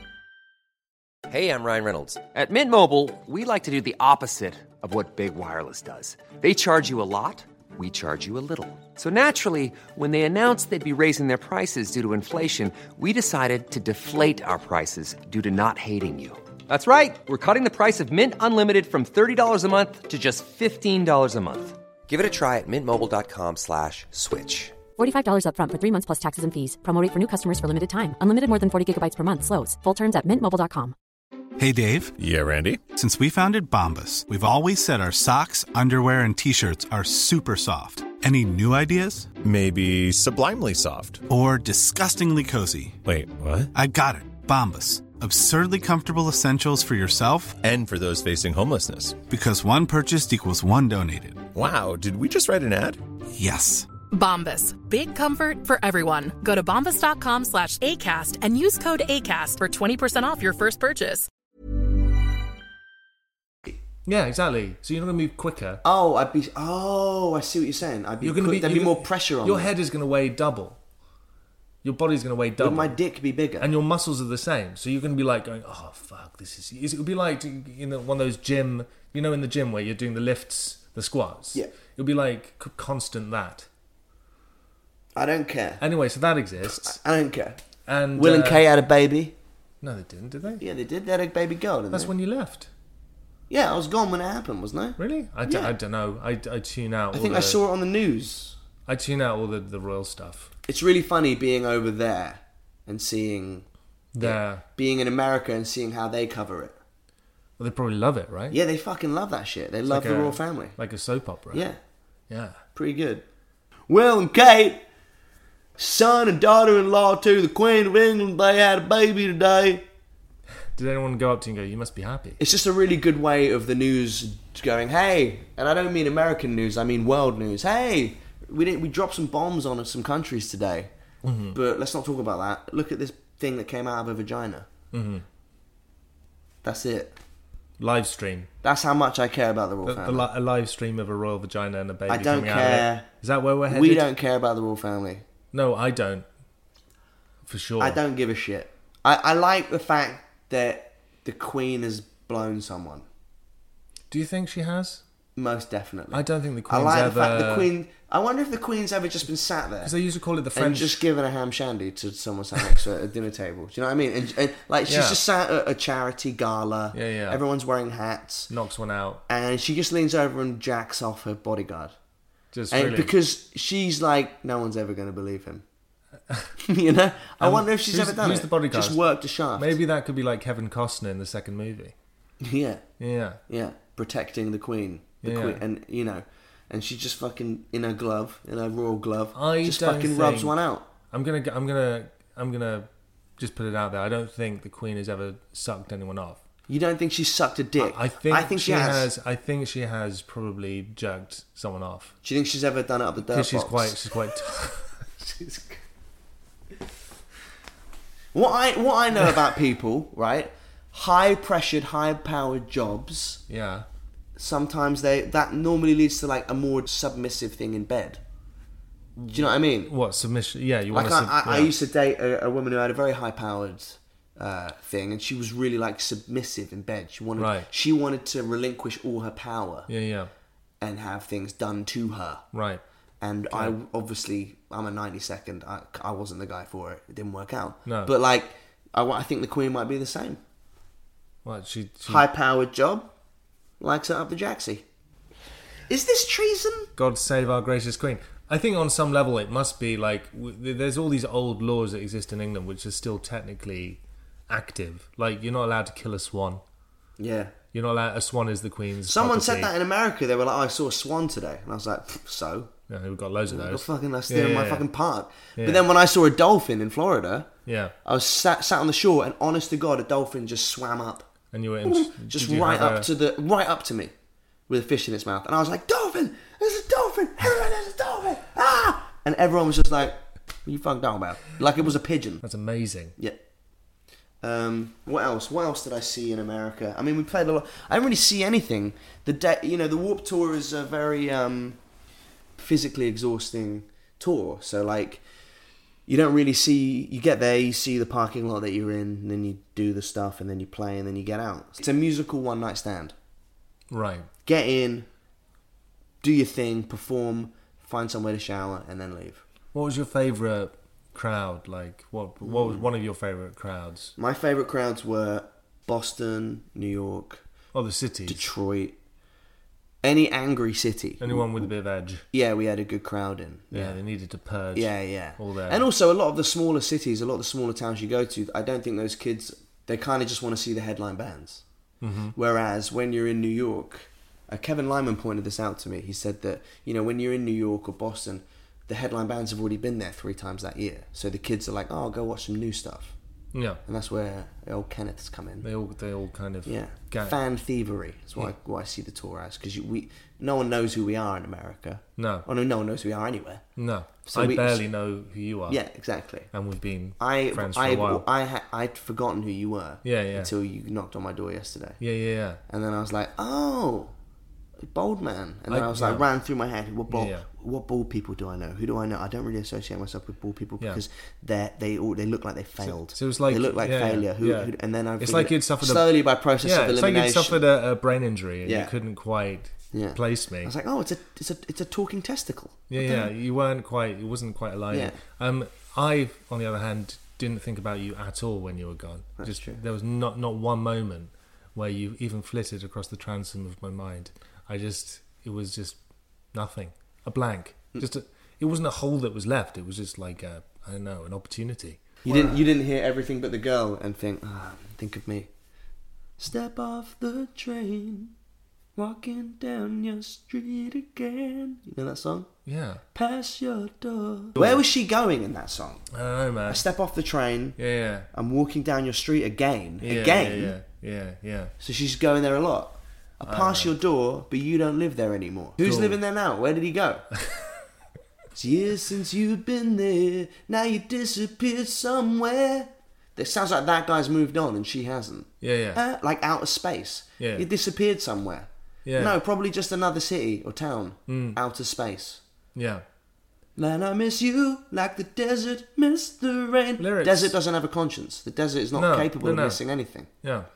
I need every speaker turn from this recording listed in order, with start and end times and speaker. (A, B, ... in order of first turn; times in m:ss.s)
0:01.3-0:24.7 A
0:25.0-0:30.9 B
0:31.6-0:32.2 C
0:32.2-0:32.8 D
0:32.9-0:39.4 C
0:39.4-0:41.2 D
0:41.3-0:43.0 C
0:43.0-0:43.7 D
0:43.7-0:47.6 C
0:47.6-0:49.2 D
0:49.3-0:51.5 C
0:51.5-0:53.0 D
0:53.3-0:53.9 C
0:54.1-1:01.3 E
1:04.0-1:05.8 F
1:05.8-1:09.7 G
1:08.2-1:10.8 F
1:11.8-1:12.9 F
1:12.6-1:13.7 G
1:13.6-1:23.7 F
1:25.2-1:25.8 G
1:25.8-1:27.0 F
1:26.6-1:27.6 G
1:27.8-1:28.6 F
1:28.2-1:29.4 G
1:29.8-1:30.6 F
1:30.6-1:32.1 G
1:31.9-1:32.7 F
1:33.5-1:35.7 G
1:35.0-1:37.6 F
1:37.1-1:38.6 G
1:38.8-1:40.5 F
1:40.7-1:43.6 G
1:44.1-1:44.6 F
1:44.2-1:46.8 G
1:47.6-1:48.6 F
1:48.5-1:50.8 G
1:49.9-1:51.7 F
1:51.5-1:51.8 G
1:52.3-1:52.6 F
1:52.7-1:53.2 G
1:53.9-1:54.8 G
1:55.8-1:59.8 G
2:00.7-2:02.4 F
2:02.4-2:10.9 G
2:11.2-2:11.6 F
2:11.5-2:14.7 G
2:14.9-2:15.2 F
2:16.6-2:17.2 G
2:17.8-2:18.5 F
2:18.6-2:20.3 G
2:19.8-2:24.1 F
2:22.1-2:23.1 G
2:23.7-2:25.2 G
2:25.5-2:26.2 F
2:27.4-2:28.0 F
2:27.8-2:33.0 G
2:34.1-2:35.0 F
2:35.4-2:39.9 G
2:36.1-2:37.7 F
2:39.8-2:41.1 F
2:40.5-2:48.5 G
2:44.9-2:45.2 F
2:46.9-2:47.4 F
2:48.5-2:49.2 F
2:49.3-2:51.9 G
2:52.5-2:53.1 F
2:52.7-2:55.6 G
2:56.6-2:59.8 G
2:57.4-2:59.0 F
2:59.6-3:01.9 F
3:02.4-3:02.8 G
3:03.0-3:03.4 F
3:03.5-3:10.9 G
3:05.2-3:05.6 F
3:09.3-3:10.6 F
3:11.1-3:16.4 F
3:16.7-3:19.1 G
3:17.8-3:22.1 F
3:22.2-3:24.0 G
3:23.2-3:25.8 F
3:28.3-3:33.4 G
3:33.5-3:33.8 F
3:34.4-3:38.2 G
3:39.2-3:41.7 F
3:39.3-3:39.9 G
3:40.9-3:49.9 G
3:47.4-3:47.7 F
3:49.9-3:50.3 F
3:50.8-3:52.4 G
3:52.5-3:52.8 F
3:53.2-4:00.4 G
3:53.5-3:53.8 F
3:57.8-3:58.1 F
4:01.4-4:02.2 F
4:02.0-4:03.0 G
4:03.8-4:04.8 G
4:05.9-4:06.9 G
4:07.0-4:16.6 F
4:17.2-4:17.5 G
4:17.7-4:19.7 F
4:19.0-4:22.7 G
4:22.9-4:24.9 F
4:23.5-4:27.5 G
4:25.6-4:25.8 F
4:27.6-4:27.9 F
4:28.0-4:31.3 G
4:31.5-4:33.1 F
4:31.8-4:34.1 G
4:34.7-4:42.4 G
4:42.4-4:43.1 F
4:44.4-4:51.8 G
4:52.6-4:55.2 G
4:56.1-5:03.1 G
5:03.9-5:04.3 F
5:04.4-5:05.0 G
5:06.2-5:09.4 G
5:09.7-5:14.1 F
5:12.4-5:12.8 G
5:14.2-5:17.4 G
5:17.7-5:18.5 F
5:18.3-5:19.0 G
5:20.0-5:21.7 G
5:21.2-5:22.2 F
5:22.3-5:24.0 G
5:23.7-5:25.9 F
5:24.7-5:31.6 G
5:32.0-5:32.3 F
5:32.4-5:43.1 G
5:43.5-5:43.8 F
5:43.8-5:45.7 G
5:45.6-5:47.4 F
5:46.6-5:53.6 G
5:52.2-5:52.4 F
5:53.8-5:55.8 F
5:54.2-5:54.8 G
5:55.7-5:56.5 G
5:56.5-5:58.2 F
5:57.2-6:02.0 G
6:00.0-6:00.5 F
6:02.0-6:02.6 F
6:02.7-6:04.1 G
6:04.9-6:17.6 G
6:05.7-6:06.2 F
6:07.1-6:07.5 F
6:12.8-6:20.7 F
6:18.6-6:18.9 G
6:19.9-6:23.3 G
6:22.9-6:36.0 F
6:24.9-6:25.2 G
6:29.4-6:29.8 G
6:36.5-6:42.6 F
6:42.2-6:45.5 G
6:46.4-6:48.3 G
6:49.0-6:52.5 G
6:52.6-6:53.0 F
6:53.1-6:56.0 G
6:54.5-6:54.8 F
6:56.1-6:56.8 F
6:56.7-6:57.8 G
6:57.8-6:58.3 F
6:58.3-7:00.8 G
7:00.0-7:01.7 F
7:01.8-7:07.2 G
7:03.4-7:03.9 F
7:05.8-7:06.2 F
7:07.4-7:07.7 F
7:08.5-7:22.4 G
7:15.6-7:16.0 F
7:17.4-7:17.7 F
7:19.0-7:19.4 F
7:21.3-7:21.6 F
7:22.7-7:23.0 F
7:23.8-7:30.3 G
7:27.0-7:27.5 F
7:28.9-7:29.8 F
7:30.4-7:30.7 F